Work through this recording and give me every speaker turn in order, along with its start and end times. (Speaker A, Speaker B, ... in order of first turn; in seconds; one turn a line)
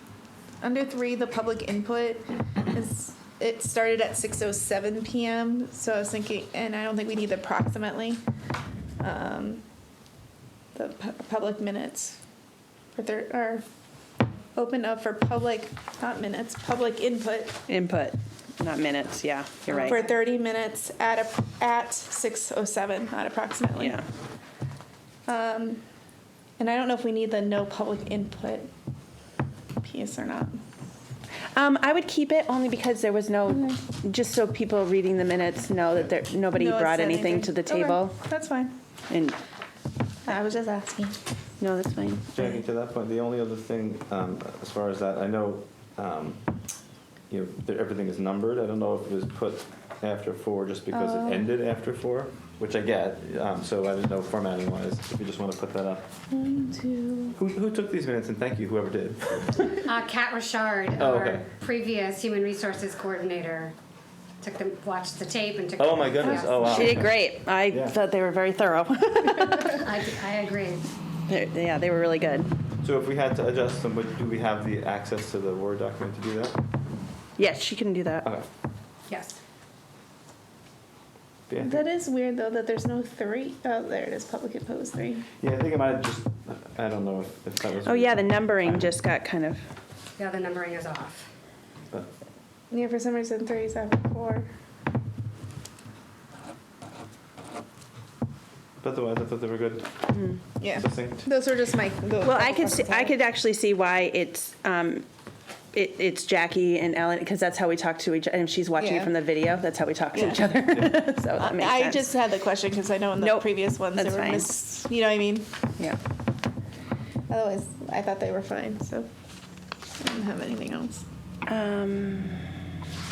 Speaker A: 0.6-8.2
Speaker A: 9.0-9.6
Speaker A: 10.8-12.2
Speaker A: 13.0-13.7
Speaker A: 14.6-17.6
Speaker B: 17.7-20.1
Speaker A: 19.7-24.0
Speaker B: 23.8-24.1
Speaker A: 25.3-25.8
Speaker A: 26.6-28.7
Speaker A: 29.8-30.6
Speaker B: 31.5-38.2
Speaker A: 36.5-38.8
Speaker B: 39.1-39.4
Speaker A: 40.2-41.2
Speaker B: 41.6-42.3
Speaker C: 42.3-46.4
Speaker C: 47.3-56.1
Speaker B: 50.9-51.5
Speaker A: 56.7-57.3
Speaker B: 56.8-57.0
Speaker C: 57.4-59.7
Speaker D: 59.8-63.8
Speaker C: 61.0-61.4
Speaker D: 64.4-66.9
Speaker C: 65.8-68.0
Speaker B: 66.3-69.8
Speaker D: 69.5-70.8
Speaker B: 71.3-72.5
Speaker C: 72.8-76.6
Speaker B: 77.4-78.3
Speaker D: 79.1-79.4
Speaker C: 81.5-81.9
Speaker A: 81.6-85.2
Speaker C: 85.4-89.0
Speaker B: 87.8-89.6
Speaker D: 90.2-91.3
Speaker A: 92.7-94.5
Speaker C: 98.8-101.3
Speaker B: 100.1-100.4
Speaker A: 100.6-103.2
Speaker B: 102.2-105.1
Speaker B: 105.7-112.2
Speaker A: 108.8-109.1
Speaker A: 110.1-115.5
Speaker B: 113.2-114.5
Speaker A: 117.3-119.1
Speaker A: 120.0-121.0
Speaker B: 121.5-122.4